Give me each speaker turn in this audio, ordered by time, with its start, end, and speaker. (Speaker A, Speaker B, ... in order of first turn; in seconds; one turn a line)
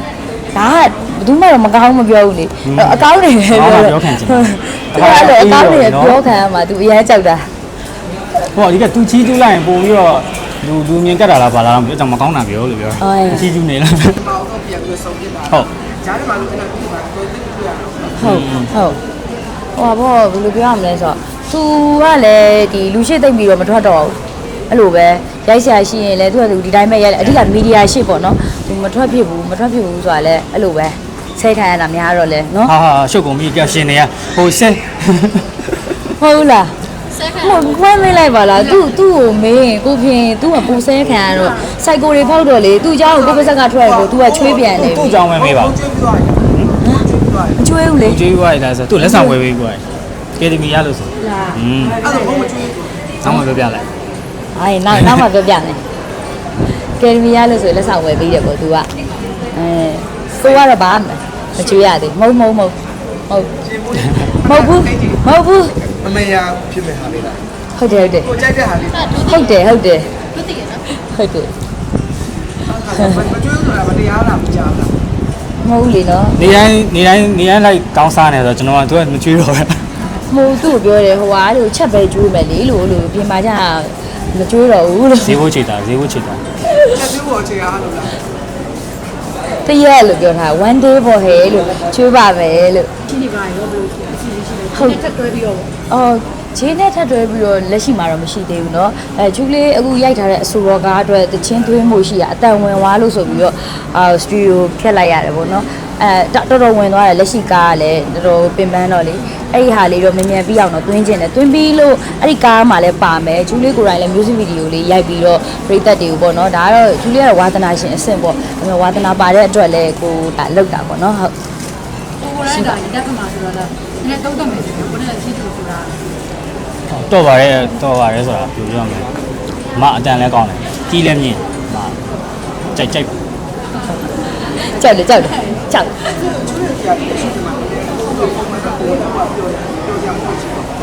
Speaker A: 0.5-7.5
Speaker B: 2.6-6.2
Speaker B: 8.5-14.2
Speaker A: 13.0-13.5
Speaker C: 14.3-15.5
Speaker C: 16.0-18.1
Speaker A: 18.2-19.0
Speaker B: 18.2-18.7
Speaker A: 19.8-32.7
Speaker B: 32.6-35.6
Speaker A: 36.2-45.2
Speaker D: 41.3-41.7
Speaker B: 44.7-45.8
Speaker C: 45.7-46.3
Speaker A: 46.8-48.2
Speaker B: 48.0-49.8
Speaker A: 49.0-49.4
Speaker B: 50.4-52.0
Speaker D: 51.2-52.6
Speaker C: 52.0-52.9
Speaker B: 53.2-53.9
Speaker A: 54.5-55.8
Speaker A: 56.7-58.9
Speaker A: 59.5-62.8
Speaker A: 63.3-63.5
Speaker C: 63.8-65.1
Speaker A: 64.4-65.9
Speaker C: 66.0-67.4
Speaker A: 67.8-68.4
Speaker C: 68.3-69.2
Speaker A: 69.2-70.1
Speaker A: 70.9-71.5
Speaker C: 72.7-74.9
Speaker A: 73.0-73.2
Speaker A: 75.6-76.5
Speaker B: 76.3-79.9
Speaker A: 80.3-85.4
Speaker B: 85.2-86.4
Speaker A: 86.7-87.0
Speaker C: 87.0-88.2
Speaker A: 89.6-92.9
Speaker D: 93.1-95.7
Speaker A: 94.7-95.0
Speaker A: 95.9-121.3
Speaker D: 122.2-126.0
Speaker A: 122.4-122.8
Speaker B: 126.9-129.1
Speaker B: 129.8-132.0
Speaker B: 132.7-133.1
Speaker A: 134.6-136.1
Speaker C: 136.2-140.6